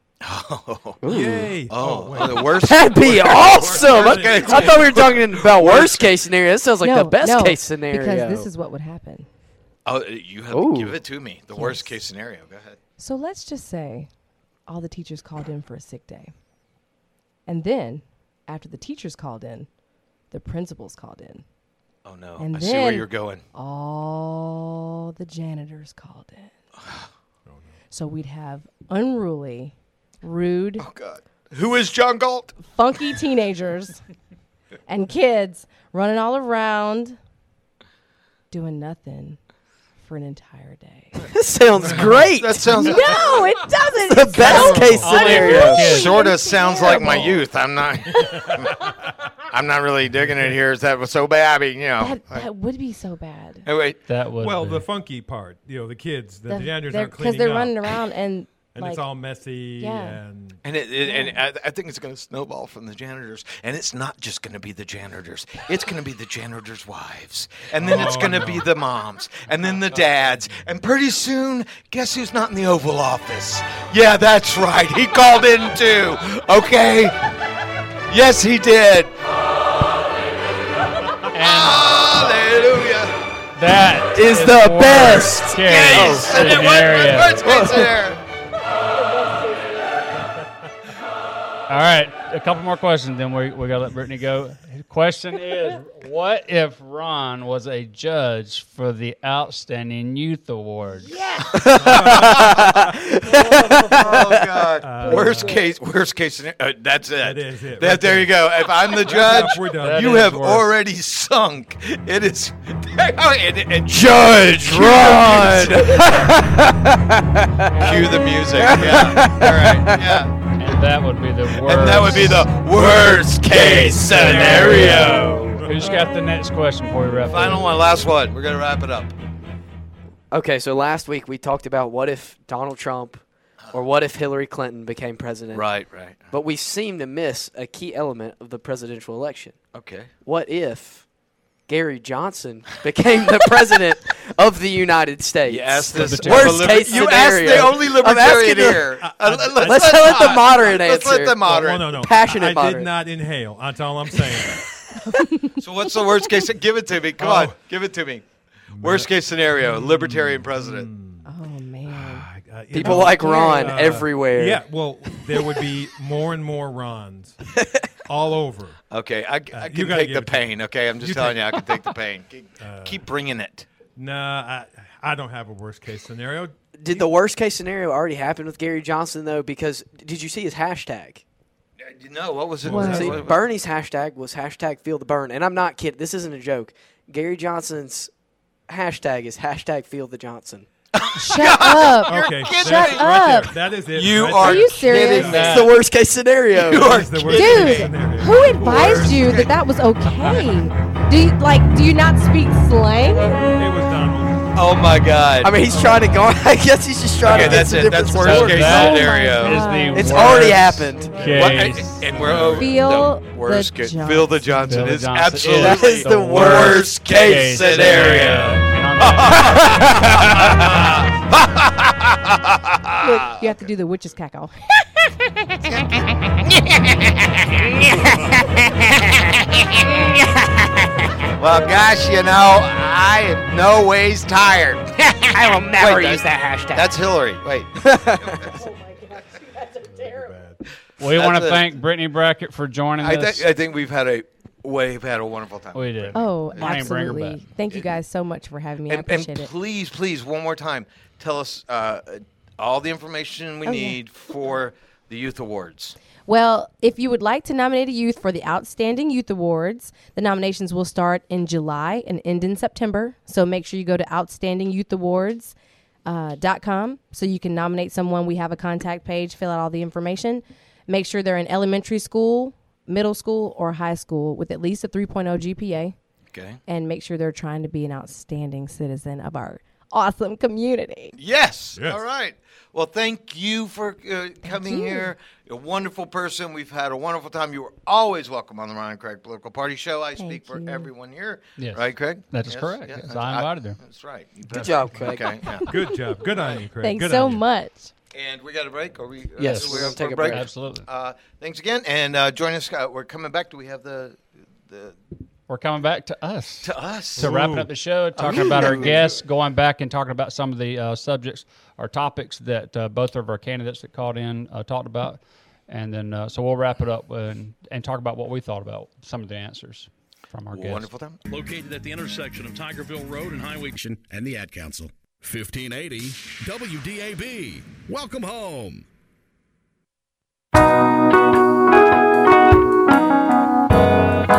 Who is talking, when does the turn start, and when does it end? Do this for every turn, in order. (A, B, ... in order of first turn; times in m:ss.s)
0:00.2-0:01.0 A
0:01.0-0:01.6 B
0:01.0-0:05.0 C
0:01.7-0:06.1 A
0:02.2-0:08.5 B
0:06.8-0:09.3 D
0:09.8-0:12.8 A
0:10.5-0:11.0 B
0:11.5-0:12.0 D
0:13.0-0:14.1 D
0:14.7-0:16.3 D
0:17.5-0:19.7 D
0:20.3-0:21.4 D
0:22.0-0:23.4 A
0:22.4-0:26.5 D
0:26.8-0:27.1 A
0:27.4-0:27.8 C
0:27.9-0:30.8 D
0:30.8-0:32.6 A
0:32.6-0:34.0 D
0:34.9-0:37.2 D
0:38.5-0:39.4 D
0:40.0-0:41.2 D
0:41.3-0:42.7 B
0:41.9-0:43.4 A
0:42.8-0:47.4 D
0:44.1-0:45.8 B
0:44.4-0:45.0 C
0:44.4-0:44.7 A
0:45.0-0:46.2 E
0:45.7-0:48.8 A
0:48.1-0:48.9 D
0:48.2-0:49.2 C
0:49.4-0:52.5 A
0:50.2-0:50.5 C
0:52.0-0:53.7 D
0:53.6-0:54.0 A
0:54.1-0:54.8 E
0:54.4-0:58.0 C
0:56.5-0:59.0 D
0:58.7-1:00.6 C
0:59.8-1:00.2 D
1:00.6-1:17.2 A
1:01.0-1:01.4 D
1:07.8-1:08.7 C
1:18.1-1:19.1 A
1:21.3-1:21.9 E
1:21.3-1:23.2 A
1:23.6-1:27.4 E
1:24.1-1:26.8 B
1:24.9-1:28.2 A
1:27.4-1:27.9 B
1:29.1-1:29.8 D
1:31.7-1:41.1 E
1:41.0-1:41.6 D
1:41.4-1:56.4 A
1:41.5-1:44.6 B
1:41.7-1:42.9 C
1:43.3-1:44.2 D
1:44.8-1:45.6 C
1:45.0-1:45.6 D
1:47.2-1:50.2 C
1:49.2-1:50.7 E
1:53.9-2:00.2 B
1:57.8-2:00.4 A
2:00.6-2:02.5 E
2:01.5-2:05.6 A
2:03.4-2:05.7 B
2:03.5-2:07.6 E
2:04.2-2:04.6 C
2:05.4-2:05.9 C
2:07.3-2:09.1 A
2:10.3-2:15.7 B
2:15.5-2:16.3 A
2:16.3-2:19.6 B
2:19.7-2:20.1 A
2:20.2-2:21.0 B
2:21.7-2:28.9 B
2:25.4-2:32.1 A
2:25.9-2:27.1 E
2:29.0-2:30.5 C
2:29.6-2:32.9 B
2:31.4-2:34.7 C
2:35.0-2:36.0 D
2:35.5-2:38.2 A
2:37.2-2:37.6 C
2:38.7-2:41.3 C
2:38.8-2:40.9 A
2:41.2-2:42.3 D
2:41.9-2:47.4 C
2:42.7-2:45.5 B
2:42.8-2:43.8 D
2:47.5-2:47.9 B
2:48.0-2:48.8 C
2:48.9-2:53.7 A
2:49.5-2:50.4 C
2:51.0-2:51.7 C
2:52.6-2:53.0 C
2:54.0-2:57.1 C
2:56.8-3:01.2 B
3:01.8-3:03.4 A
3:02.6-3:03.3 C
3:02.7-3:08.1 B
3:02.7-3:03.1 D
3:08.7-3:10.7 B
3:10.9-3:15.7 A
3:11.1-3:13.5 D
3:12.0-3:15.6 C
3:14.4-3:15.4 D
3:15.2-3:15.7 E
3:15.3-3:17.0 B
3:16.5-3:19.5 A
3:16.7-3:18.4 C
3:17.3-3:23.5 D
3:23.5-3:24.5 C
3:24.5-3:25.6 A
3:25.4-3:28.9 B
3:27.2-3:29.7 A
3:27.3-3:32.3 E
3:28.6-3:30.4 D
3:29.9-3:31.3 B
3:31.2-3:31.5 C
3:31.3-3:43.4 A
3:32.5-3:34.5 D
3:34.6-3:40.0 E
3:35.4-3:38.1 B
3:39.4-3:40.7 B
3:43.0-3:46.1 D
3:46.4-3:50.0 A
3:50.1-3:51.3 B
3:51.3-3:58.4 A
3:55.2-3:56.9 B
3:57.8-3:58.5 B
3:58.5-4:00.3 D
3:59.9-4:00.6 C
4:01.0-4:03.4 E
4:01.0-4:01.6 A
4:03.0-4:06.9 A
4:05.7-4:07.4 E
4:06.1-4:09.5 D
4:08.9-4:16.0 A
4:13.6-4:14.0 D
4:16.2-4:35.9 D
4:36.3-4:36.6 A
4:36.7-4:41.2 D
4:41.2-4:55.7 A
4:44.4-4:45.1 D
4:50.2-4:50.9 D
4:51.6-4:53.8 E
4:54.5-4:55.4 B
4:55.6-4:57.4 C
4:56.8-4:57.9 D
4:58.1-5:05.0 A
4:59.4-5:00.5 B
4:59.4-5:00.9 E
5:05.5-5:20.9 E
5:06.6-5:07.3 A
5:07.2-5:07.7 C
5:08.2-5:09.2 A
5:08.3-5:08.9 B
5:20.5-5:21.2 A
5:21.3-5:28.8 F